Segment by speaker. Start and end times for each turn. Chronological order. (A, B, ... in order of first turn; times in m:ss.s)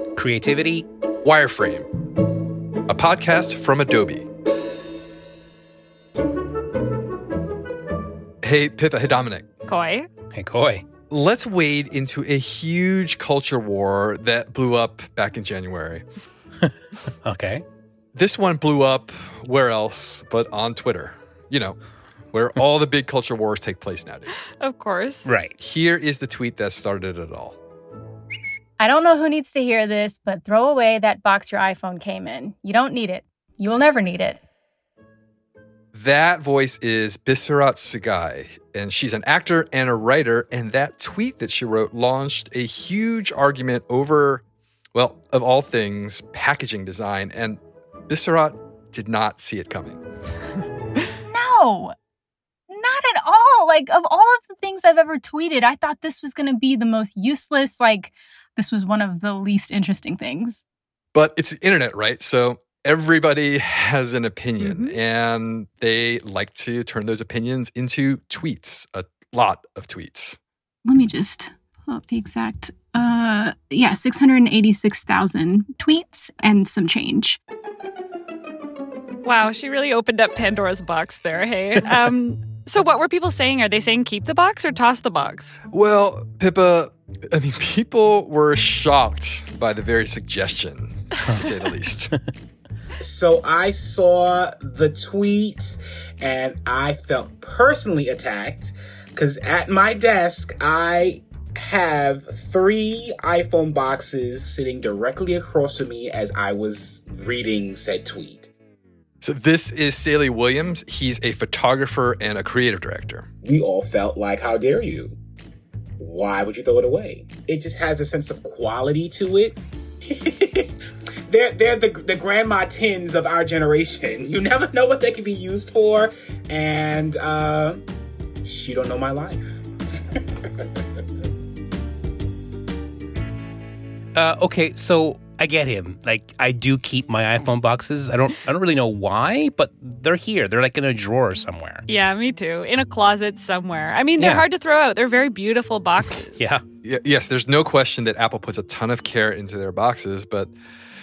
0:00.2-0:00.9 A
0:01.2-0:01.9 B
0:02.9-0:04.3 B
0:08.4-0:09.5 B
0:09.7-0:10.1 C
0:10.3-0:10.8 A
0:11.1-0:16.0 B
0:17.2-0:17.6 A
0:18.1-0:21.8 B
0:22.3-0:24.4 B
0:24.5-0:25.3 C
0:25.2-0:25.5 A
0:25.6-0:27.6 B
0:28.8-0:34.4 D
0:35.9-0:44.4 B
0:44.9-0:50.0 B
0:51.3-0:51.9 D
0:52.7-1:00.6 D
1:01.1-1:10.4 B
1:04.6-1:05.0 C
1:10.8-1:17.4 D
1:19.2-1:25.6 C
1:25.7-1:32.1 B
1:31.2-1:31.5 A
1:33.0-1:48.5 E
1:49.2-1:53.3 B
1:53.4-1:55.2 E
1:56.0-2:00.7 E
2:01.3-2:07.8 E
2:08.4-2:09.6 E
2:14.1-2:21.8 A
2:21.9-2:26.3 C
2:24.2-2:24.4 A
2:26.1-2:26.6 A
2:26.8-2:30.5 B